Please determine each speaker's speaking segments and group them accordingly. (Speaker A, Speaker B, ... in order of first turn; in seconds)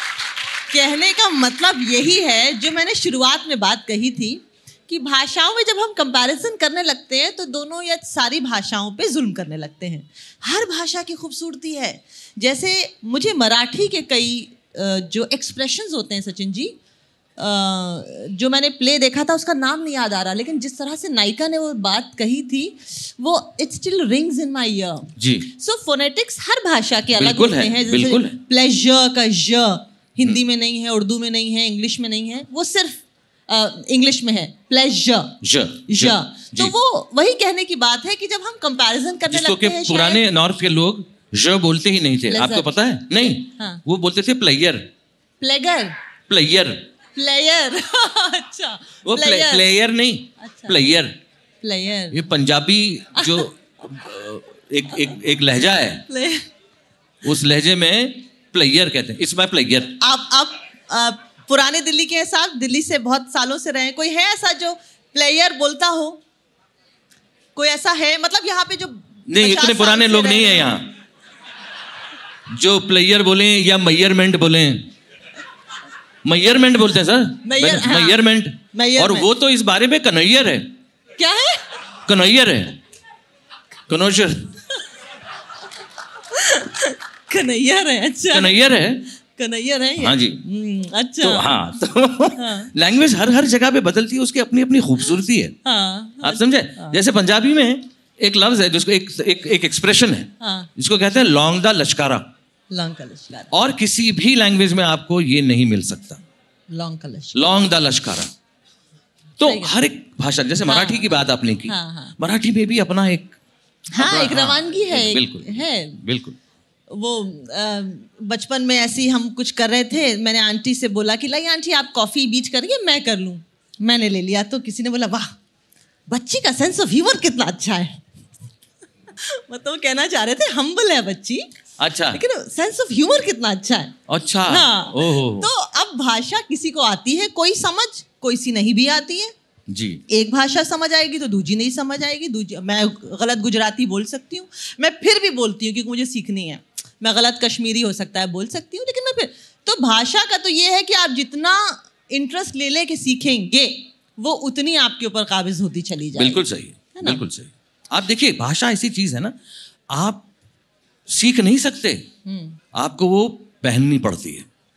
Speaker A: 0.7-16.8, 17.4-32.9, 33.5-35.4, 35.9-40.2, 42.3-42.7, 43.5-43.8, 45.4-46.0, 47.1-49.6, 50.4-50.8, 51.6-52.3, 53.1-53.5, 56.1-56.4, 60.0-66.2, 67.5-70.8, 77.4-78.2, 78.7-79.3, 81.2-81.8, 86.3-88.7, 89.2-91.6, 92.3-92.7, 95.6-97.0, 100.4-100.7, 102.7-103.5, 106.7-107.6, 109.4-109.8, 110.6-111.1, 111.7-112.2, 113.9-116.0, 116.9-125.3, 126.1-128.0, 129.1-131.5, 132.1-139.3, 140.1-157.2, 162.2-162.6
Speaker B: 25.2-25.5, 27.2-28.4, 35.4-36.7, 39.3-44.8, 46.3-46.8, 49.0-51.1, 52.1-56.0, 57.2-60.0, 69.3-70.9, 72.5-74.9, 76.2-80.7, 82.1-82.8, 83.9-84.5, 88.3-89.1, 90.0-90.4, 91.2-95.5, 96.2-102.2, 103.5-106.2, 107.3-108.3, 109.4-113.4, 113.9-116.4, 131.8-132.2, 134.1-135.5, 139.7-140.0, 156.2-159.3, 159.9-160.3, 161.1-162.1, 162.7-164.5